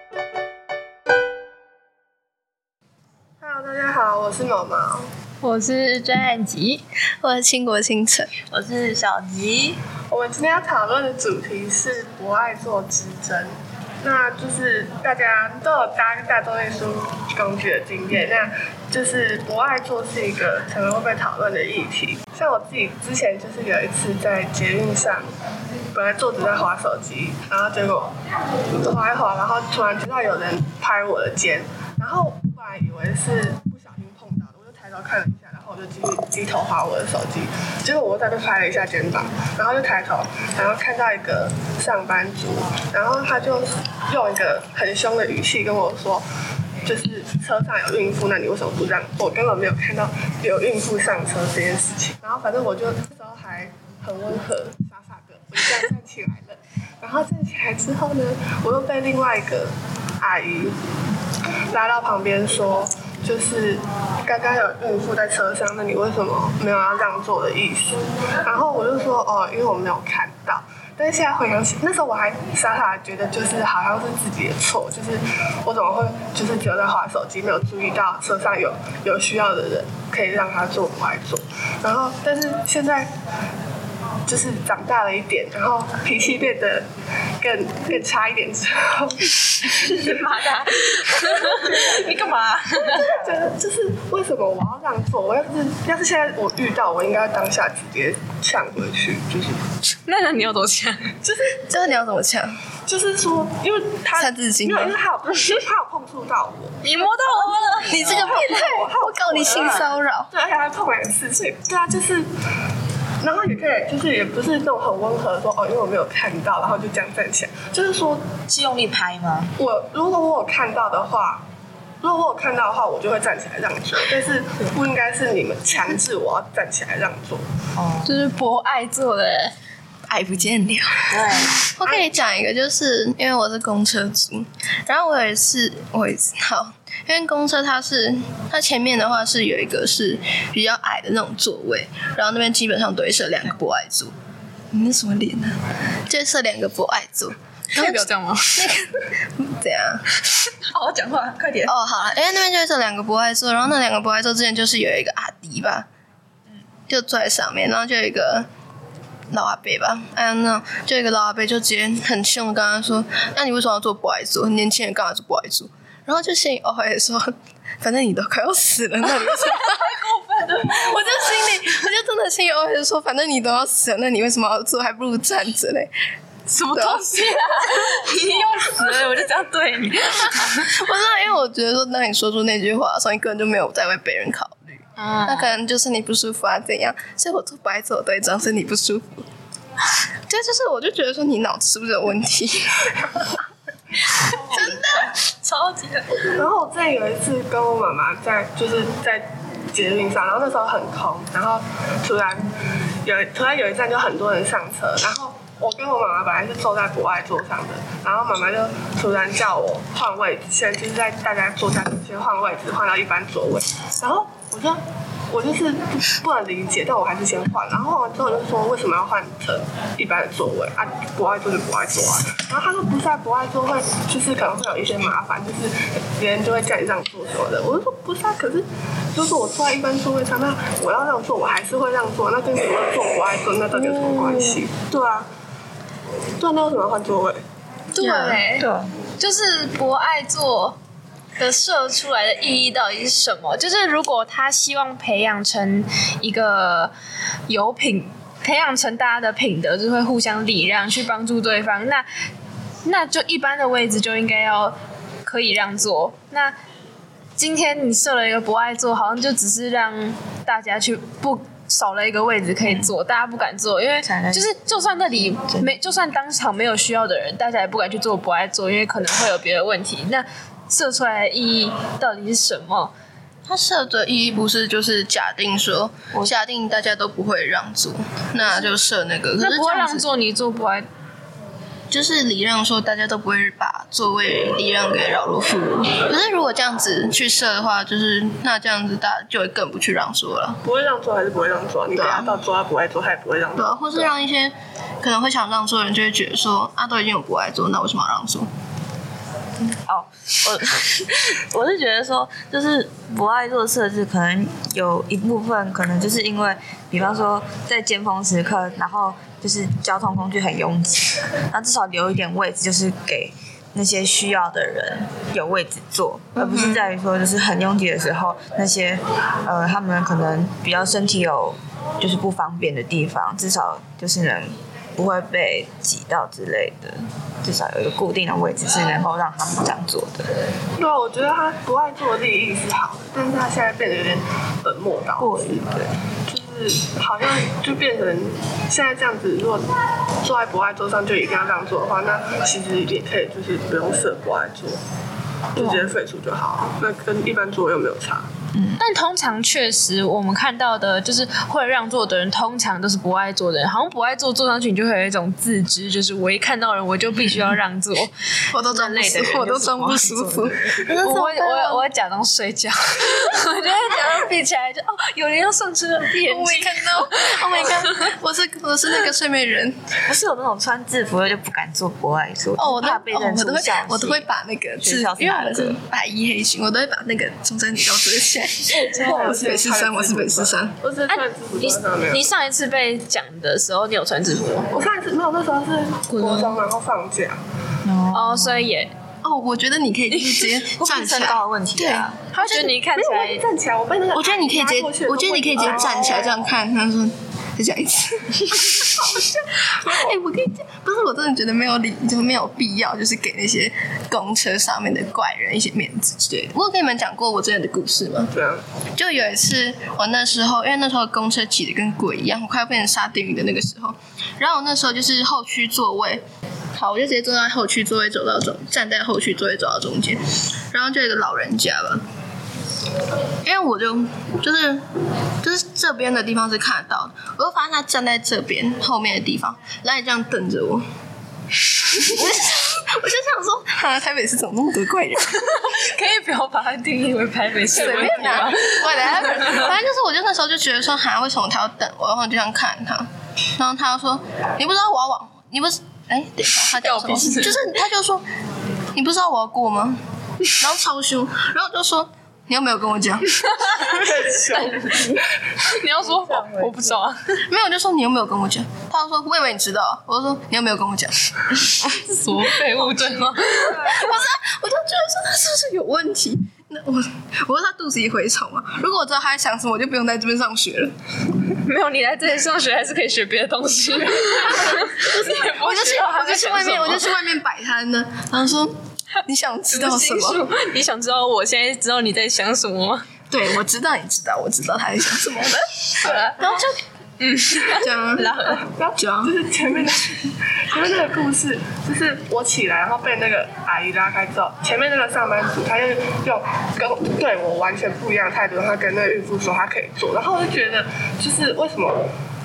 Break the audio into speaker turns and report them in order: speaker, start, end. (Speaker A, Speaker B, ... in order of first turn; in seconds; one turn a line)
Speaker A: 3.4-5.1
Speaker B: 5.4-6.8
Speaker C: 7.2-8.3
Speaker D: 8.5-9.8
Speaker A: 10.1-25.3
Speaker A: 25.9-28.1
Speaker A: 28.8-46.2
Speaker A: 46.8-60.8
Speaker A: 61.7-83.1
Speaker A: 84.3-86.9
Speaker A: 87.4-90.0
Speaker B: 89.6-93.3
Speaker A: 91.4-99.7
Speaker B: 99.8-101.2
Speaker A: 101.2-101.6
Speaker C: 101.7-102.5
Speaker A: 102.9-106.8
Speaker C: 104.2-105.0
Speaker B: 105.3-105.6
Speaker B: 106.8-108.8
Speaker C: 107.9-110.3
Speaker A: 108.1-112.3
Speaker A: 113.2-118.3
Speaker D: 118.5-119.5
Speaker A: 119.6-121.4
Speaker A: 122.0-127.4
Speaker D: 127.8-128.3
Speaker B: 128.0-129.6
Speaker C: 130.1-144.1
Speaker D: 131.1-131.6
Speaker A: 131.8-132.1
Speaker C: 144.7-145.6
Speaker C: 146.1-150.0
Speaker B: 147.7-148.7
Speaker B: 150.3-151.7
Speaker C: 151.7-155.9
Speaker C: 156.9-158.5
Speaker C: 159.3-175.9
Speaker B: 169.3-171.5
Speaker B: 176.5-180.7
Speaker C: 176.6-177.3
Speaker C: 180.5-189.2
Speaker B: 185.0-185.5
Speaker C: 190.3-193.4
Speaker C: 194.1-196.2
Speaker D: 194.5-195.0
Speaker A: 196.3-202.5
Speaker A: 203.0-214.8
Speaker A: 215.3-235.3
Speaker B: 233.8-234.3
Speaker A: 236.4-237.4
Speaker B: 237.9-240.8
Speaker C: 238.0-238.4
Speaker D: 238.6-238.9
Speaker B: 241.4-246.9
Speaker B: 247.5-252.1
Speaker B: 252.8-256.6
Speaker B: 257.4-272.9
Speaker D: 262.6-262.9
Speaker D: 264.0-265.8
Speaker C: 273.5-280.1
Speaker B: 279.4-280.9
Speaker C: 281.9-290.6
Speaker A: 290.6-294.1
Speaker C: 291.9-292.4
Speaker C: 293.6-298.5
Speaker D: 299.6-330.3
Speaker C: 316.4-316.9
Speaker A: 330.8-339.6
Speaker D: 335.2-335.6
Speaker A: 340.2-344.8
Speaker A: 345.5-348.3
Speaker B: 345.6-345.9
Speaker D: 348.5-348.8
Speaker B: 348.8-358.1
Speaker C: 358.5-361.9
Speaker B: 358.7-359.2
Speaker D: 358.9-361.0
Speaker B: 361.0-368.1
Speaker C: 366.1-369.9
Speaker D: 370.1-374.3
Speaker C: 372.6-380.8
Speaker D: 374.8-375.8
Speaker A: 378.7-382.3
Speaker B: 378.7-379.2
Speaker B: 381.1-384.8
Speaker A: 384.7-387.4
Speaker C: 386.1-386.6
Speaker D: 387.9-388.7
Speaker B: 388.1-388.9
Speaker C: 389.2-392.7
Speaker B: 390.1-391.3
Speaker D: 390.8-392.2
Speaker B: 392.3-393.5
Speaker A: 392.9-396.4
Speaker C: 394.1-408.3
Speaker B: 395.6-396.4
Speaker A: 399.0-400.1
Speaker A: 408.3-408.6
Speaker C: 409.0-416.2
Speaker C: 416.8-422.0
Speaker C: 423.4-424.8
Speaker C: 425.4-430.8
Speaker C: 431.8-435.6
Speaker B: 435.3-439.7
Speaker C: 437.7-448.3
Speaker B: 446.7-447.7
Speaker C: 448.9-453.9
Speaker B: 453.5-454.0
Speaker A: 453.9-455.7
Speaker B: 454.6-457.4
Speaker D: 456.0-457.0
Speaker C: 457.5-461.9
Speaker B: 461.9-464.2
Speaker C: 463.6-470.9
Speaker B: 471.5-477.3
Speaker C: 474.8-480.4
Speaker B: 479.7-483.1
Speaker C: 483.3-486.8
Speaker B: 486.0-486.6
Speaker A: 486.0-486.4
Speaker B: 487.2-488.7
Speaker C: 487.6-489.4
Speaker A: 488.5-502.1